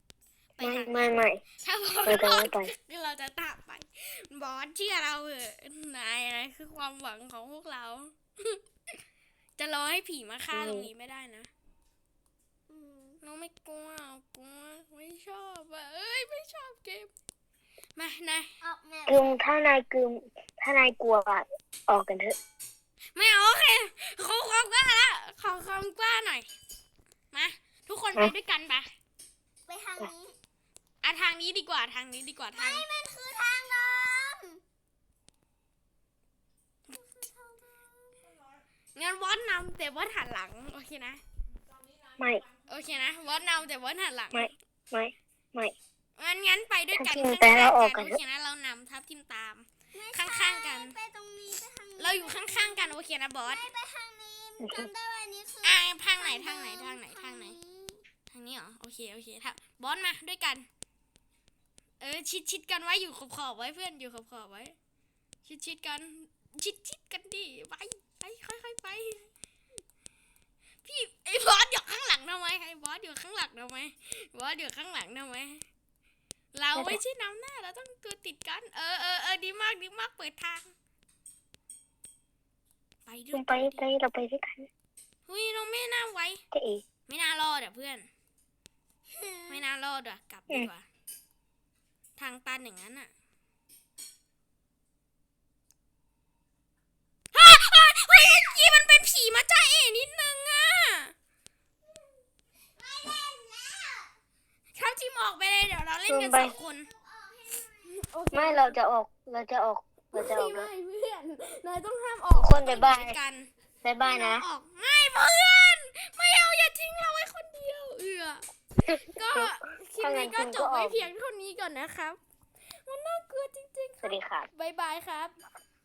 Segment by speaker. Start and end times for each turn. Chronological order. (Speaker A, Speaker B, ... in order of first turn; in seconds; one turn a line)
Speaker A: 0.6-1.1
Speaker B: 0.6-1.4
Speaker A: 1.6-8.6
Speaker B: 2.0-2.7
Speaker A: 9.6-11.5
Speaker B: 10.5-10.9
Speaker C: 12.7-13.2
Speaker A: 13.2-17.1
Speaker A: 17.9-18.5
Speaker C: 18.6-19.3
Speaker B: 19.1-22.4
Speaker A: 23.1-26.5
Speaker A: 27.3-28.9
Speaker C: 29.7-30.4
Speaker A: 31.0-32.9
Speaker C: 32.5-34.6
Speaker C: 36.9-38.4
Speaker A: 38.9-41.2
Speaker B: 42.2-42.4
Speaker A: 42.6-44.5
Speaker B: 44.3-45.7
Speaker A: 46.1-50.9
Speaker B: 47.0-48.2
Speaker C: 49.9-58.0
Speaker A: 52.0-53.6
Speaker B: 54.6-54.9
Speaker A: 55.6-57.5
Speaker A: 58.3-60.7
Speaker A: 62.0-64.8
Speaker A: 65.4-69.3
Speaker A: 70.8-75.6
Speaker A: 76.5-80.7
Speaker B: 76.7-77.0
Speaker A: 83.0-83.8
Speaker B: 83.3-84.7
Speaker A: 85.2-86.4
Speaker B: 86.5-86.8
Speaker A: 87.1-88.1
Speaker C: 89.1-89.6
Speaker A: 89.5-90.9
Speaker A: 92.2-93.1
Speaker A: 97.3-101.1
Speaker C: 101.8-102.2
Speaker C: 102.7-104.1
Speaker A: 104.7-106.9
Speaker B: 106.1-106.5
Speaker C: 106.3-108.1
Speaker A: 107.8-108.8
Speaker B: 108.3-110.7
Speaker A: 110.1-113.5
Speaker B: 112.3-113.2
Speaker B: 113.8-114.5
Speaker A: 114.0-122.2
Speaker B: 118.9-121.1
Speaker A: 122.8-125.3
Speaker B: 124.0-124.5